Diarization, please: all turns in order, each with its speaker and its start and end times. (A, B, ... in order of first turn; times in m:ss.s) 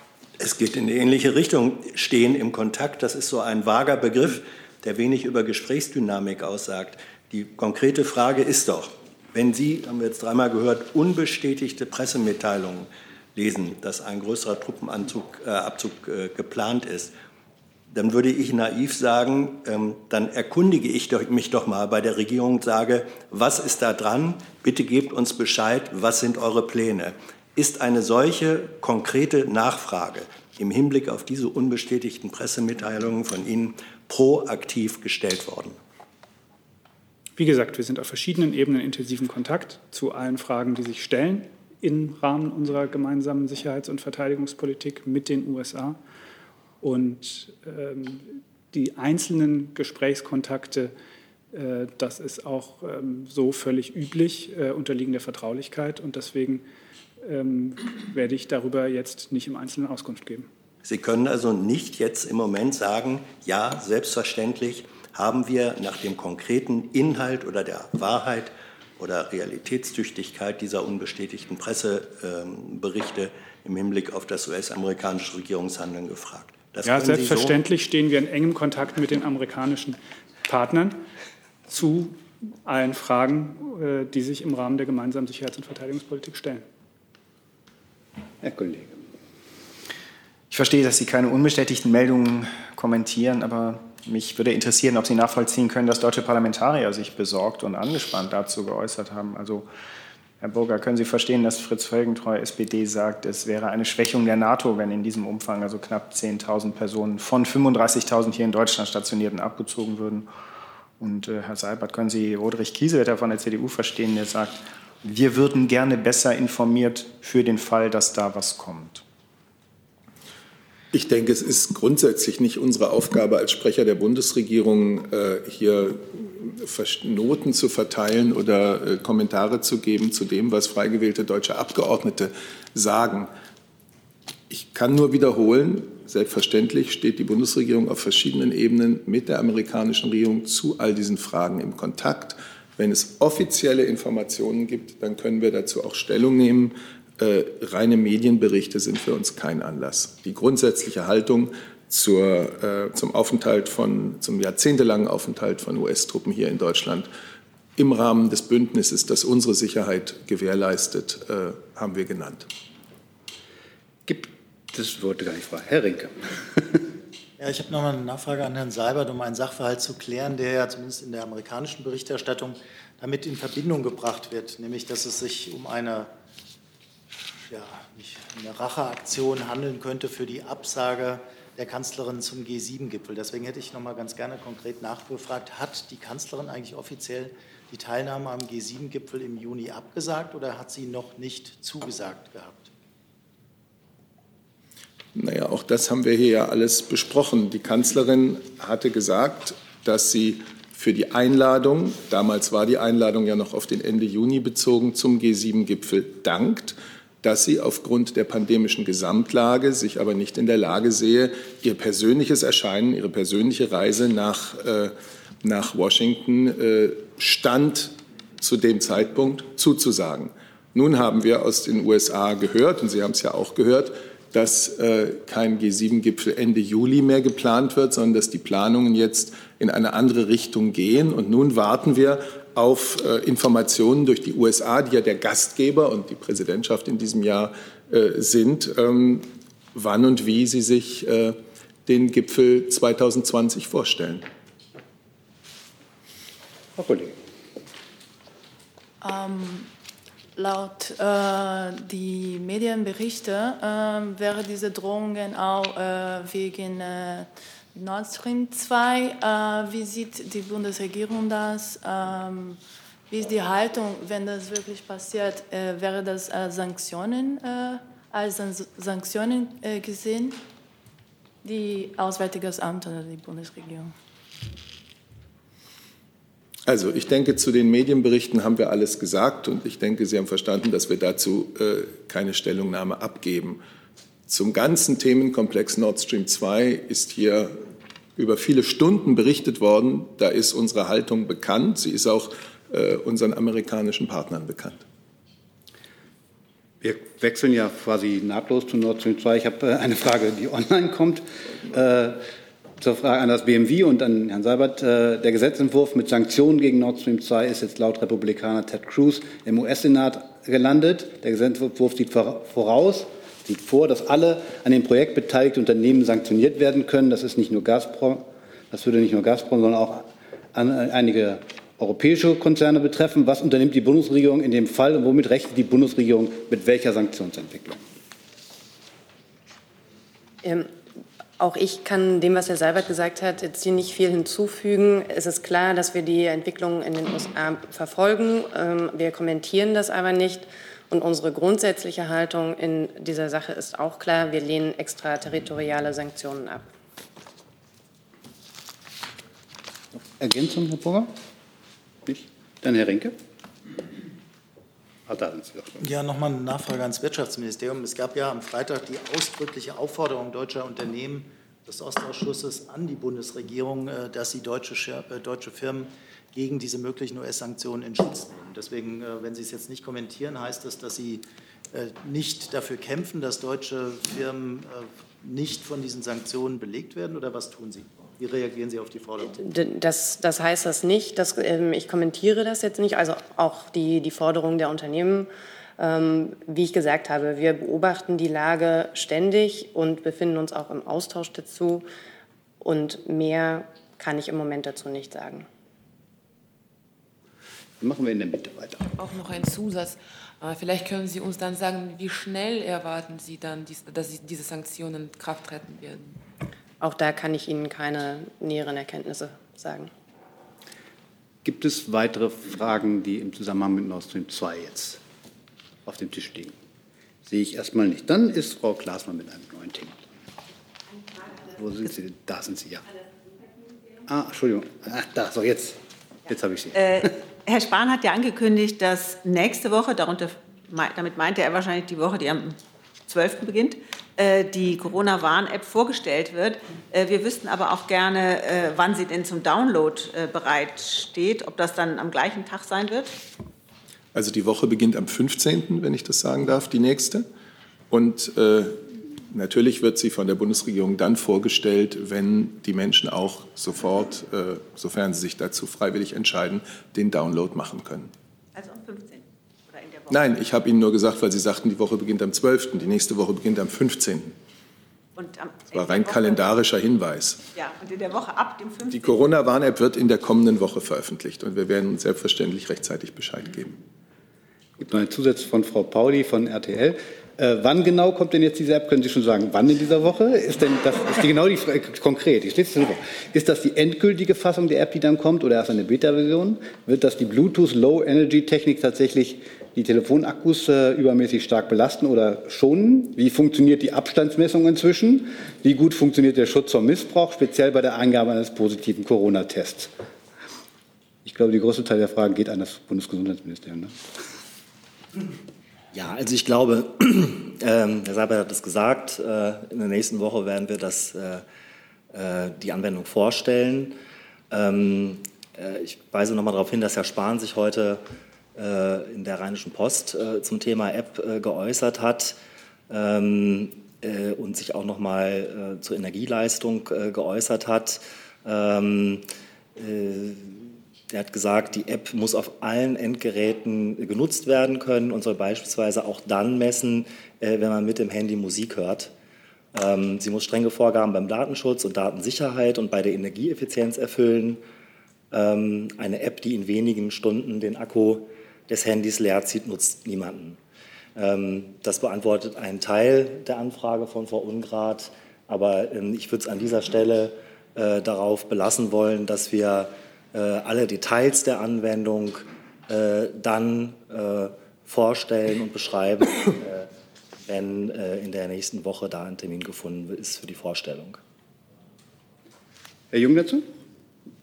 0:00.4-0:17.1 A
0:17.9-0:35.8 A
0:37.4-0:46.0 B
0:46.8-0:50.9 B
0:51.5-0:56.6 B
0:57.2-1:00.5 B
1:00.8-1:17.6 A
1:16.8-1:21.0 B
1:21.7-1:26.6 B
1:28.4-1:29.0 C
1:30.5-1:39.7 D
1:40.4-1:50.3 D
1:51.0-1:59.0 D
2:00.9-2:13.3 E
2:14.5-2:37.1 E
2:37.8-2:42.5 E
2:44.1-2:46.8 C
2:47.4-2:56.1 F
2:57.5-3:12.7 F
3:15.2-4:04.2 E
4:06.8-4:07.2 C
4:09.0-4:09.7 G
4:10.4-4:30.4 G
4:31.4-4:33.9 G
4:36.7-4:43.6 E
4:44.3-4:47.6 E
4:48.2-4:54.8 E
4:56.8-5:02.2 C
5:02.8-5:27.8 C
5:30.4-5:30.8 H
5:31.4-5:46.7 H
5:50.2-5:51.1 C
5:52.0-5:53.2 C
5:55.1-5:55.8 C
5:55.8-6:19.4 F
6:19.3-6:31.9 H
6:32.6-6:35.5 H
6:37.8-6:38.9 C
6:39.0-6:46.2 I
6:46.8-6:49.9 H
6:51.4-6:55.0 C
6:55.9-6:56.6 C
6:57.3-7:00.0 C
7:01.5-7:02.8 C
7:04.1-7:07.1 C
7:06.8-7:23.2 J
7:24.1-7:27.3 E
7:27.9-7:38.1 E
7:38.6-7:40.2 J
7:40.1-7:44.4 E
7:45.2-7:46.6 J
7:45.7-7:47.4 E
7:47.6-7:49.2 J
7:48.9-7:53.8 E
7:54.8-8:19.9 C
8:21.2-8:24.0 C
8:25.9-8:31.4 K
8:32.1-8:34.0 K
8:34.5-8:38.0 K
8:38.6-8:42.4 K
8:42.9-8:59.1 K
8:59.7-9:04.6 K
9:05.3-9:10.6 K
9:11.2-9:26.9 K
9:27.5-9:31.2 K
9:33.1-9:33.7 C